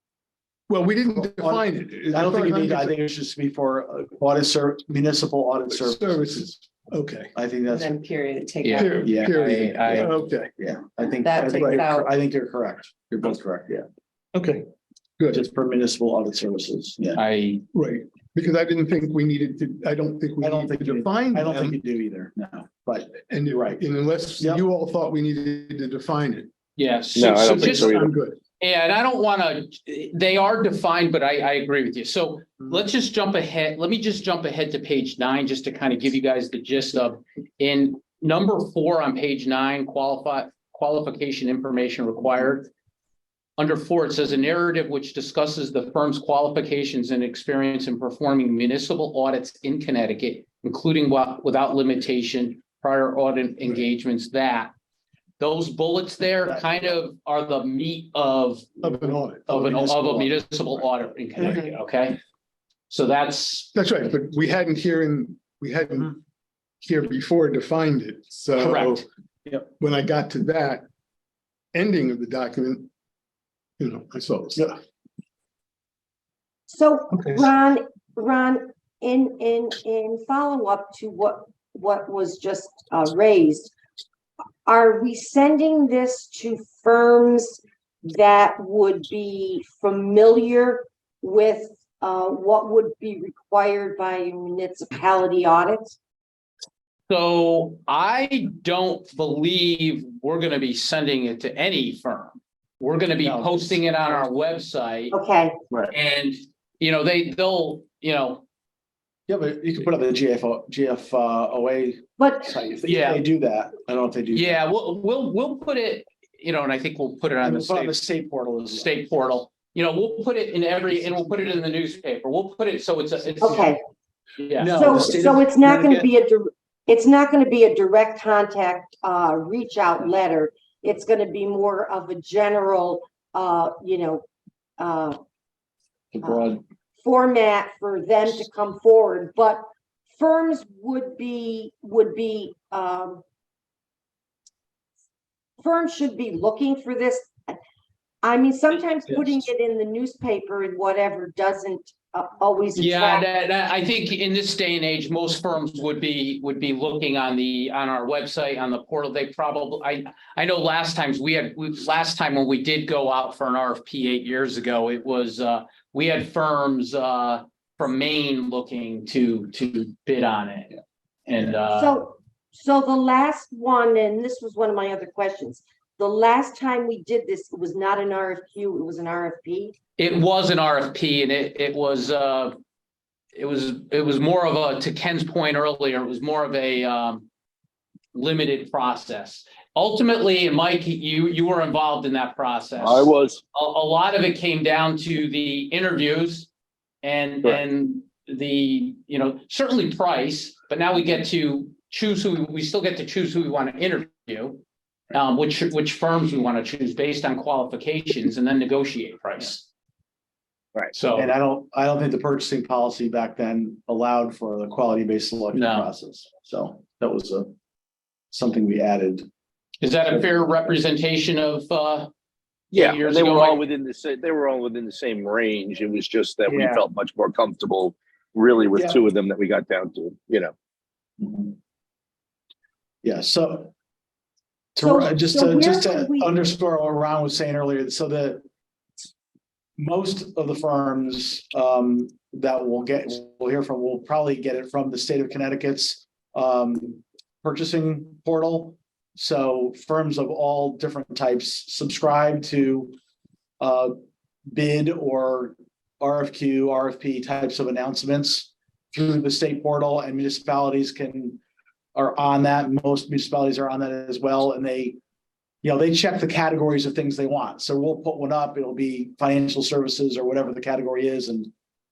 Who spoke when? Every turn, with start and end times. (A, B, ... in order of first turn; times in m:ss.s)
0:00.7-0:03.0 A
0:01.1-0:06.2 B
0:05.7-0:07.3 A
0:07.3-0:07.9 B
0:07.7-0:09.1 C
0:08.6-0:10.1 D
0:08.8-0:10.5 A
0:08.8-0:13.9 B
0:11.2-0:12.1 C
0:11.6-0:11.8 A
0:14.3-0:14.7 A
0:15.2-0:15.5 A
0:15.3-0:17.2 B
0:17.2-0:17.6 D
0:17.7-0:21.8 A
0:20.4-0:23.8 B
0:23.1-0:26.5 A
0:26.8-0:27.9 D
0:27.2-0:28.1 E
0:27.6-0:28.4 A
0:28.6-0:42.7 D
0:43.6-0:54.7 D
0:55.4-0:58.8 D
0:56.5-0:57.0 B
0:58.8-0:59.5 A
0:59.5-1:01.6 B
0:59.5-1:02.2 D
1:02.9-1:03.7 D
1:03.7-1:06.2 A
1:06.8-1:09.1 A
1:08.6-1:09.0 D
1:09.8-1:10.8 A
1:11.7-1:12.9 A
1:13.8-1:14.8 A
1:16.7-1:23.7 F
1:17.1-1:17.5 A
1:24.6-1:36.0 F
1:37.1-1:45.2 D
1:43.2-1:44.3 B
1:45.1-1:45.6 F
1:45.9-1:48.4 D
1:49.3-1:54.6 B
1:52.2-1:52.6 F
1:52.8-1:53.2 D
1:54.4-1:58.0 D
1:57.4-1:58.9 B
1:58.7-2:03.8 D
2:01.0-2:01.5 B
2:03.4-2:03.8 F
2:04.4-2:04.9 D
2:04.6-2:06.1 B
2:04.8-2:14.2 F
2:14.8-2:15.2 F
2:16.1-2:16.6 B
2:16.2-2:19.6 F
2:20.1-2:23.2 F
2:25.6-2:27.6 F
2:28.2-2:33.3 F
2:29.1-2:29.4 D
2:32.8-2:52.0 D
2:51.7-2:59.8 F
3:00.0-3:02.6 D
3:03.4-3:07.3 D
3:08.1-3:16.5 D
3:12.8-3:13.4 E
3:17.0-3:24.6 D
3:25.1-3:29.7 D
3:30.9-3:31.3 D
3:31.2-3:37.5 B
3:35.5-3:35.9 D
3:38.3-3:39.3 B
3:39.8-3:42.1 D
3:42.7-3:50.5 E
3:42.8-3:43.6 D
3:46.5-3:46.8 B
3:51.2-3:51.6 B
3:53.0-3:53.7 B
3:54.8-3:58.4 B
3:54.8-3:56.3 F
3:59.8-4:13.0 B
4:13.6-4:13.9 B
4:14.5-4:21.4 B
4:22.0-4:25.0 B
4:25.6-4:31.5 B